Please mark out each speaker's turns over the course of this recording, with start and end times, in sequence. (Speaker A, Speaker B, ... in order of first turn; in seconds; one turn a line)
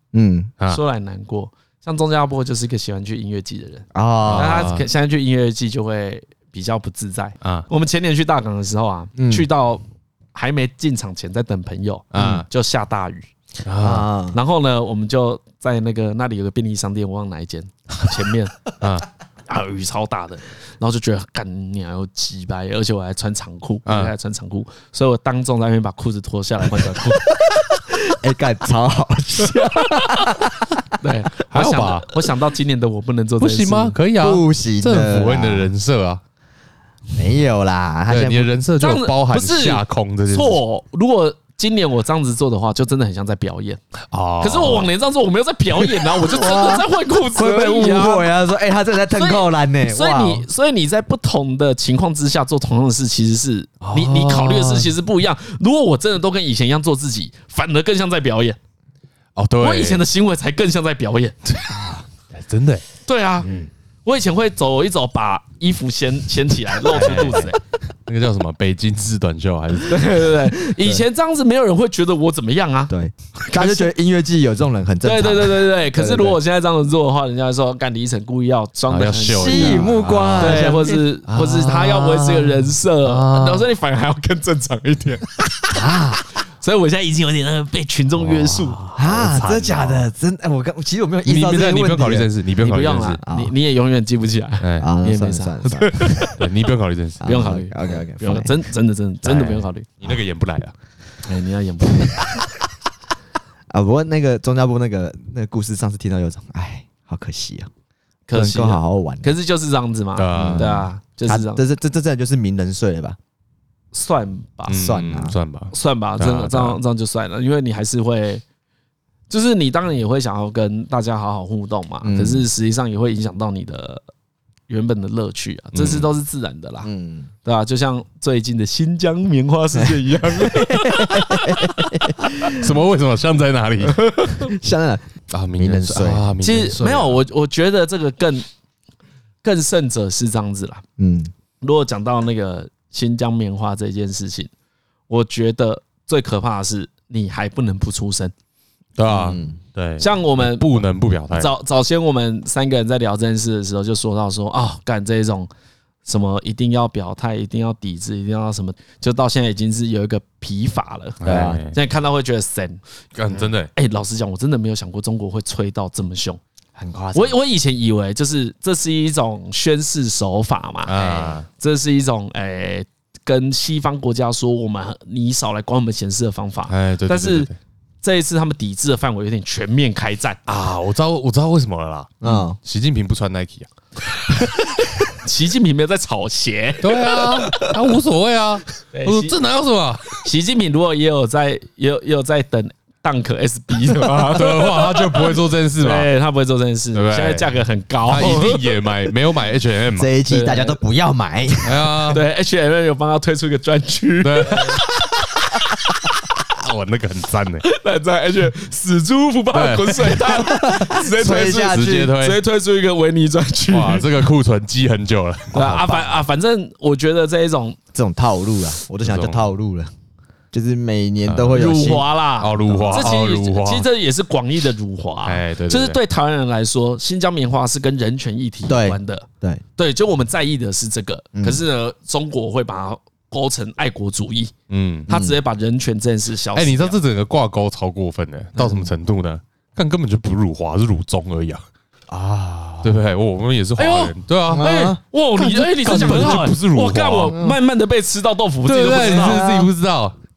Speaker A: 0.1-0.5
Speaker B: 0.7-9.8
Speaker A: 3.9-4.7
Speaker C: 4.2-4.8
Speaker C: 7.4-7.7
Speaker A: 9.2-9.5
Speaker B: 10.3-13.3
Speaker C: 12.1-12.4
Speaker A: 12.2-12.4
Speaker C: 13.7-14.1
Speaker A: 13.8-14.4
Speaker B: 14.3-18.6
Speaker C: 18.8-19.1
Speaker B: 19.5-27.2
Speaker C: 23.9-24.1
Speaker A: 27.4-30.8
Speaker B: 29.4-30.4
Speaker B: 31.0-34.0
Speaker C: 31.5-32.2
Speaker C: 33.4-36.2
Speaker A: 34.2-35.7
Speaker A: 37.1-38.5
Speaker C: 38.1-40.6
Speaker B: 38.8-43.8
Speaker C: 44.1-44.9
Speaker B: 44.4-48.3
Speaker A: 46.0-50.5
Speaker B: 49.1-58.6
Speaker C: 53.8-54.9
Speaker C: 59.4-60.0
Speaker B: 59.6-61.4
Speaker A: 61.7-62.0
Speaker C: 62.3-62.8
Speaker B: 63.0-63.5
Speaker B: 64.0-67.6
Speaker C: 66.9-67.5
Speaker C: 68.0-70.3
Speaker B: 69.8-73.9
Speaker A: 72.9-76.4
Speaker B: 75.0-85.8
Speaker C: 78.9-80.7
Speaker A: 79.3-82.5
Speaker C: 83.0-83.7
Speaker A: 85.7-86.2
Speaker B: 86.6-88.9
Speaker C: 88.2-90.1
Speaker A: 88.9-92.3
Speaker C: 91.2-93.2
Speaker B: 92.6-96.4
Speaker A: 93.2-93.5
Speaker C: 94.6-94.9
Speaker A: 94.8-96.3
Speaker C: 96.2-97.5
Speaker A: 97.2-98.6
Speaker B: 97.2-99.9
Speaker C: 99.2-100.7
Speaker B: 101.2-102.4
Speaker A: 103.7-107.7
Speaker B: 108.3-111.6
Speaker A: 108.3-109.3
Speaker C: 110.2-110.8
Speaker A: 110.3-113.2
Speaker B: 113.9-114.8
Speaker C: 114.7-116.8
Speaker A: 114.7-115.3
Speaker B: 115.7-118.4
Speaker B: 119.3-124.0
Speaker A: 122.0-122.5
Speaker B: 124.7-126.9
Speaker C: 125.7-126.1
Speaker A: 126.8-127.3
Speaker B: 127.4-131.9
Speaker A: 129.8-132.6
Speaker C: 132.5-134.4
Speaker B: 133.9-134.4
Speaker A: 134.4-136.2
Speaker C: 135.3-137.2
Speaker B: 136.4-138.4
Speaker B: 139.4-140.8
Speaker A: 141.0-141.3
Speaker B: 141.6-144.5
Speaker B: 145.1-148.3
Speaker C: 149.0-151.5
Speaker A: 149.1-149.6
Speaker B: 150.0-155.5
Speaker B: 156.1-162.8
Speaker C: 161.2-161.8
Speaker A: 161.2-161.6
Speaker C: 163.2-163.7
Speaker B: 163.7-166.4
Speaker A: 166.8-167.4
Speaker B: 167.1-177.5
Speaker C: 170.8-171.4
Speaker C: 176.7-177.5
Speaker B: 178.0-180.4
Speaker C: 180.5-184.7
Speaker A: 182.2-182.6
Speaker B: 185.1-187.7
Speaker C: 186.8-190.2
Speaker B: 188.9-189.4
Speaker B: 190.2-198.9
Speaker C: 193.9-196.1
Speaker C: 196.9-197.5
Speaker C: 198.1-200.1
Speaker A: 199.9-202.0
Speaker B: 200.3-200.8
Speaker C: 201.6-202.2
Speaker B: 202.1-205.9
Speaker C: 204.2-204.8
Speaker C: 206.5-207.7
Speaker B: 207.6-214.2
Speaker C: 209.5-210.3
Speaker A: 210.3-212.2
Speaker C: 211.6-212.4
Speaker C: 213.7-216.2
Speaker B: 215.5-217.8
Speaker A: 217.9-219.9
Speaker C: 219.0-219.5
Speaker A: 220.5-222.1
Speaker C: 221.2-221.6
Speaker B: 221.5-234.5
Speaker C: 222.4-223.9
Speaker A: 222.6-223.1
Speaker C: 225.2-226.0
Speaker A: 228.7-229.6
Speaker A: 231.3-231.6
Speaker C: 234.7-235.1
Speaker A: 235.1-235.4
Speaker B: 235.1-237.0
Speaker C: 236.5-241.6
Speaker A: 242.1-242.9
Speaker C: 242.8-244.7
Speaker B: 243.8-249.5
Speaker A: 244.5-245.0
Speaker C: 245.3-247.4
Speaker A: 245.9-246.4
Speaker C: 248.6-250.1
Speaker A: 249.0-249.7